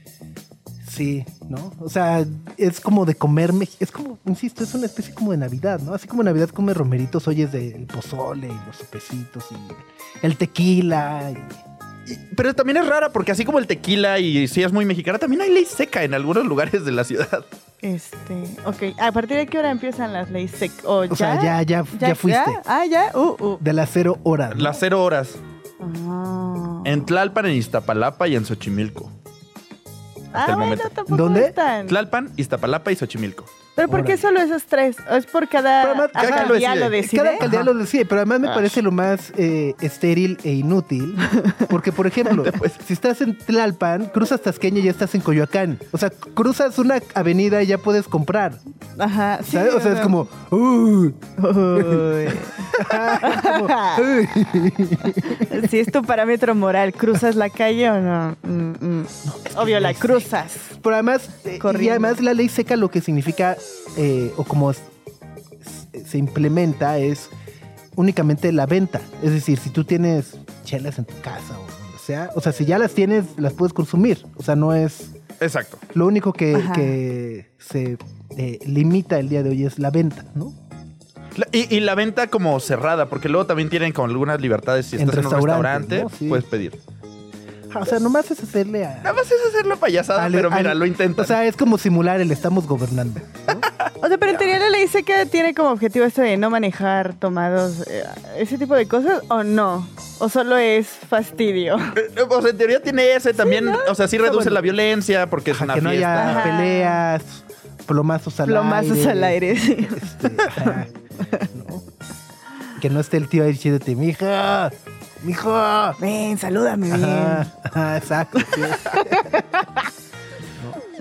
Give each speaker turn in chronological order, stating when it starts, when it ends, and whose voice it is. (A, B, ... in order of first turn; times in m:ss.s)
0:00.8-0:11.6 A
0:12.1-0:17.5 B
0:17.8-0:23.6 C
0:21.1-0:22.6 A
0:23.6-0:24.8 A
0:24.5-0:25.4 B
0:25.8-0:27.1 C
0:26.8-0:29.1 B
0:30.3-0:32.0 C
0:30.4-0:30.9 B
0:31.1-0:31.6 A
0:31.9-0:33.5 B
0:33.8-0:37.4 C
0:33.9-0:34.2 A
0:35.8-0:48.6 A
0:36.2-0:37.7 B
0:38.4-0:38.8 B
0:42.4-0:42.7 B
0:49.0-0:50.2 C
0:49.5-0:55.7 A
0:51.4-0:54.1 C
0:55.1-1:00.7 C
0:59.2-1:04.9 A
1:01.6-1:02.2 C
1:05.6-1:07.3 A
1:08.0-1:15.1 A
1:15.4-1:15.8 B
1:15.9-1:20.6 A
1:16.5-1:16.9 C
1:21.4-1:26.8 B
1:25.0-1:26.4 A
1:27.7-1:29.2 A
1:29.0-1:31.4 B
1:30.2-1:33.7 A
1:34.0-1:42.0 C
1:42.0-1:46.5 B
1:43.4-1:44.7 C
1:45.5-1:50.9 A
1:46.2-1:47.0 C
1:48.4-1:50.1 C
1:51.5-1:51.8 A
1:52.8-1:56.0 A
1:56.0-1:57.5 C
1:56.9-1:59.3 A
1:58.5-1:59.6 C